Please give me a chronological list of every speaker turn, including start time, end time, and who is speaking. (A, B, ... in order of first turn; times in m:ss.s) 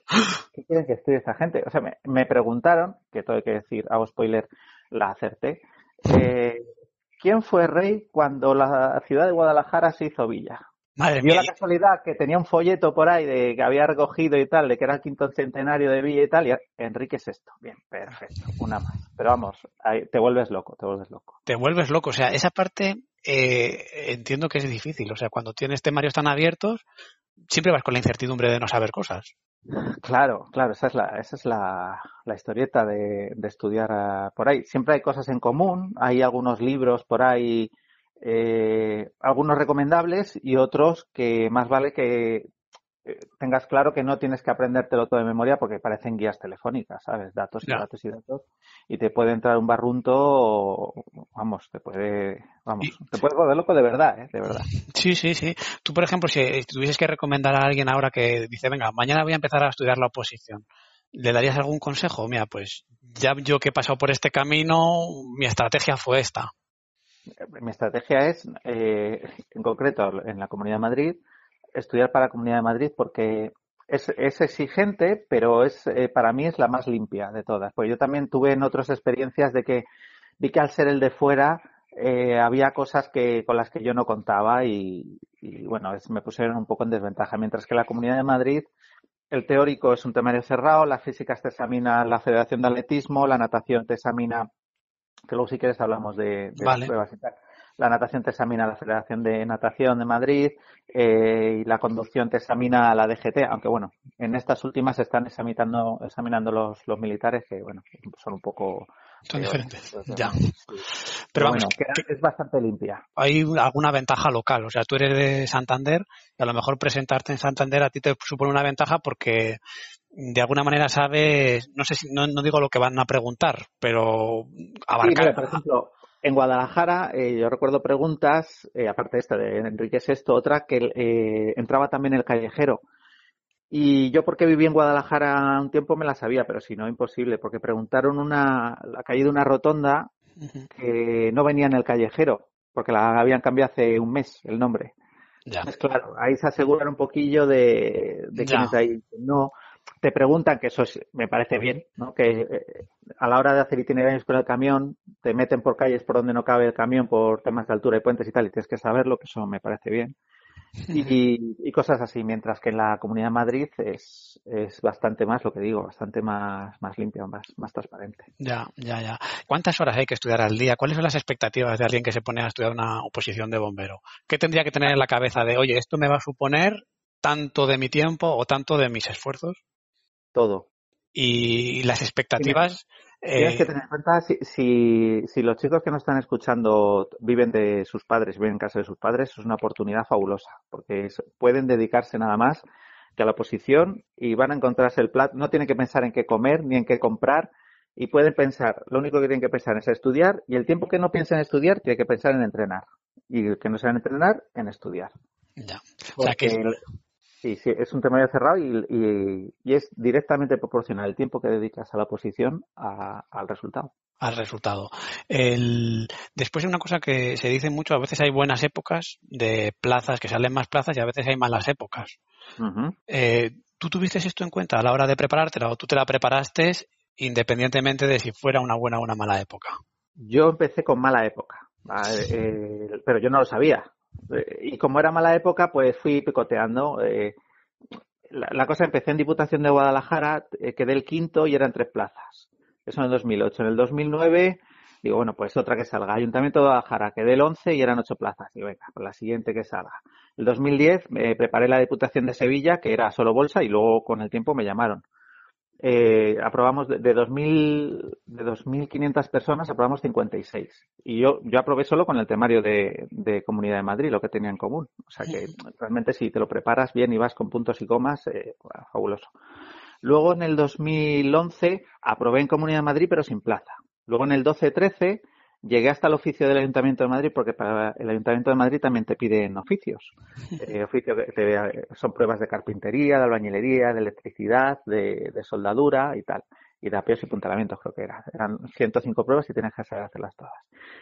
0:00.4-0:10.6 A
0:11.0-0:11.5 B
0:11.2-0:21.4 A
0:21.5-0:26.8 B
0:27.5-0:29.3 B
0:29.7-0:42.5 A
0:43.0-0:54.7 A
0:54.5-1:06.5 B
1:07.6-1:11.2 A
1:11.8-1:19.8 A
1:20.4-1:28.7 A
1:29.3-1:34.5 A
1:35.3-1:53.0 A
1:36.6-1:36.9 B
1:49.3-1:50.4 B
1:51.3-1:51.7 B
1:53.2-1:59.6 B
2:00.1-2:05.6 B
2:05.0-2:12.8 A
2:13.7-2:20.1 A
2:20.4-2:20.7 B
2:20.7-2:24.9 A
2:25.6-2:29.5 A
2:28.4-2:28.8 B
2:30.0-2:40.2 A
2:40.8-2:41.1 B
2:40.9-2:48.3 A
2:48.4-2:59.6 B
3:00.4-3:00.7 A
3:01.2-3:03.7 B
3:02.4-3:02.7 A
3:03.4-3:12.6 A
3:13.2-3:25.1 A
3:25.6-3:26.6 B
3:26.2-3:26.8 A
3:27.4-3:33.9 A
3:34.2-3:42.2 B
3:42.6-3:43.0 A
3:43.1-3:49.8 B
3:50.2-3:57.4 A
3:58.3-4:15.0 A
4:15.8-4:29.3 A
4:30.0-4:50.7 A